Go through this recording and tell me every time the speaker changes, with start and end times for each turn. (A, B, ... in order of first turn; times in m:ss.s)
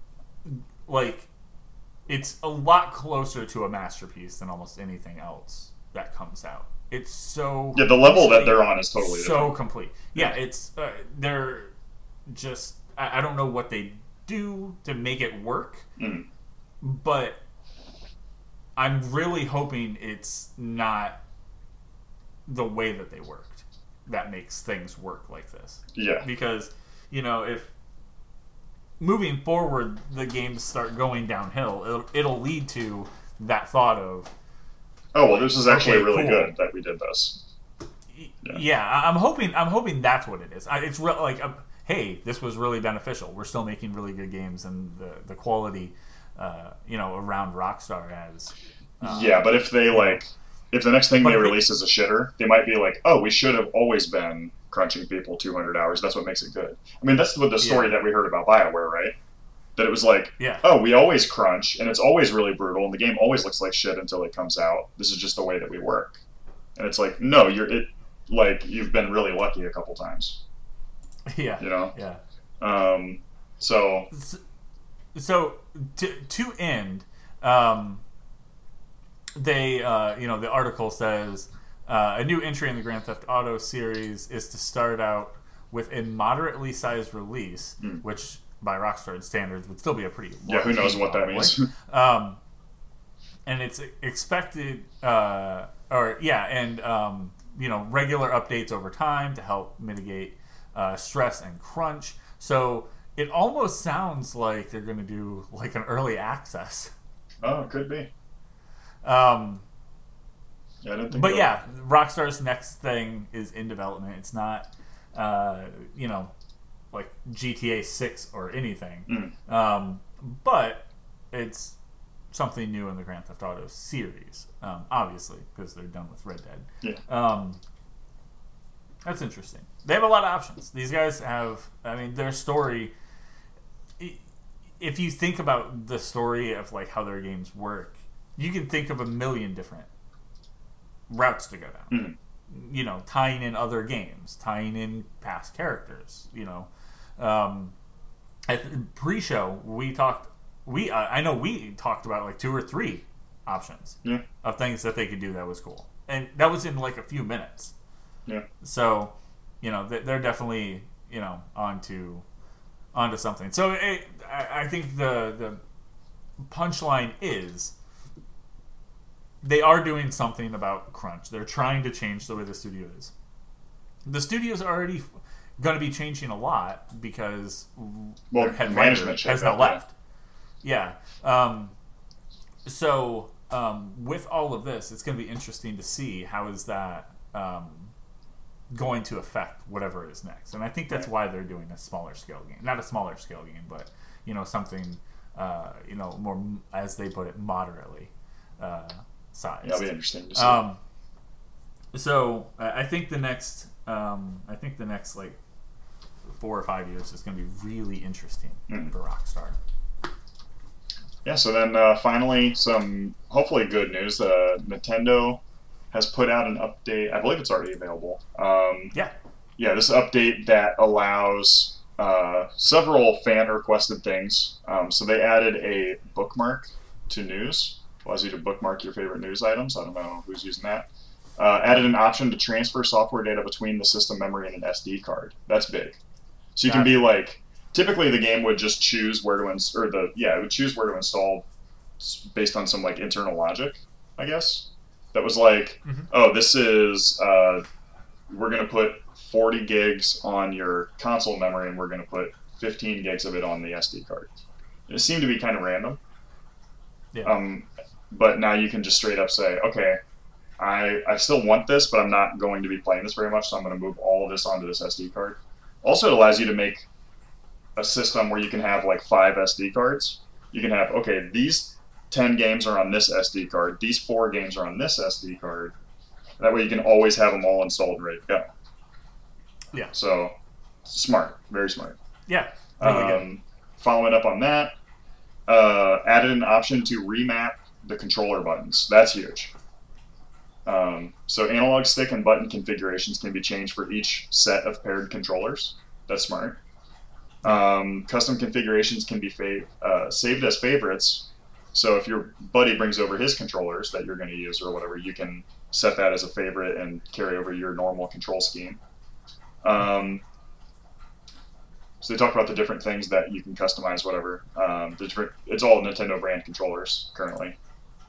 0:00.4-0:01.3 A
0:02.1-0:11.7 A
0:07.8-0:09.6 B
0:12.3-0:15.9 A
0:16.0-0:16.3 B
0:16.8-0:17.4 A
0:18.8-0:21.2 A
0:22.5-0:27.7 A
0:26.0-0:26.3 B
0:29.0-0:34.3 A
0:35.1-0:37.4 B
0:35.6-0:36.5 A
0:38.1-0:50.2 A
0:49.0-0:59.2 B
0:51.2-0:51.7 A
0:57.6-0:58.0 A
0:59.8-1:06.2 B
1:00.4-1:00.7 A
1:06.8-1:10.4 B
1:11.3-1:12.2 A
1:11.6-1:12.0 B
1:12.6-1:14.1 B
1:14.1-1:14.4 A
1:15.2-1:18.0 A
1:19.4-1:32.4 A
1:30.5-1:31.7 B
1:33.5-1:46.9 A
1:47.4-1:48.1 B
1:49.0-1:49.6 A
1:50.8-1:51.5 B
1:51.1-1:56.3 A
1:56.9-2:01.8 A
1:59.1-1:59.3 B
2:02.3-2:07.6 A
2:09.0-2:12.9 A
2:14.8-2:19.9 A
2:21.1-2:27.7 A
2:21.9-2:22.2 B
2:28.5-2:37.7 A
2:38.6-2:42.2 A
2:42.9-2:45.6 A
2:46.4-2:47.7 A
2:49.4-2:53.1 A
2:54.1-2:55.1 A
2:55.6-2:59.9 A
2:58.3-2:59.8 B
3:00.6-3:01.7 A
3:02.7-3:07.9 A
3:08.7-3:20.8 A
3:19.6-3:20.6 B
3:21.9-3:25.4 A
3:26.3-3:29.6 A
3:31.2-3:39.0 B
3:39.6-3:56.0 B
3:56.6-4:01.5 B
3:56.7-3:57.0 A
4:02.0-4:07.6 B
4:05.8-4:06.1 A
4:08.3-4:14.4 B
4:14.9-4:16.0 B
4:17.1-4:17.4 A
4:17.2-4:20.0 B
4:20.6-4:26.9 B
4:27.8-4:35.8 B
4:36.4-4:38.5 B
4:39.9-4:40.3 B
4:40.8-4:42.0 B
4:42.3-4:43.3 A
4:42.8-4:44.7 B
4:45.5-4:49.5 B
4:50.7-4:56.6 B
4:57.4-5:08.8 B
5:09.6-5:10.2 B
5:12.0-5:17.6 B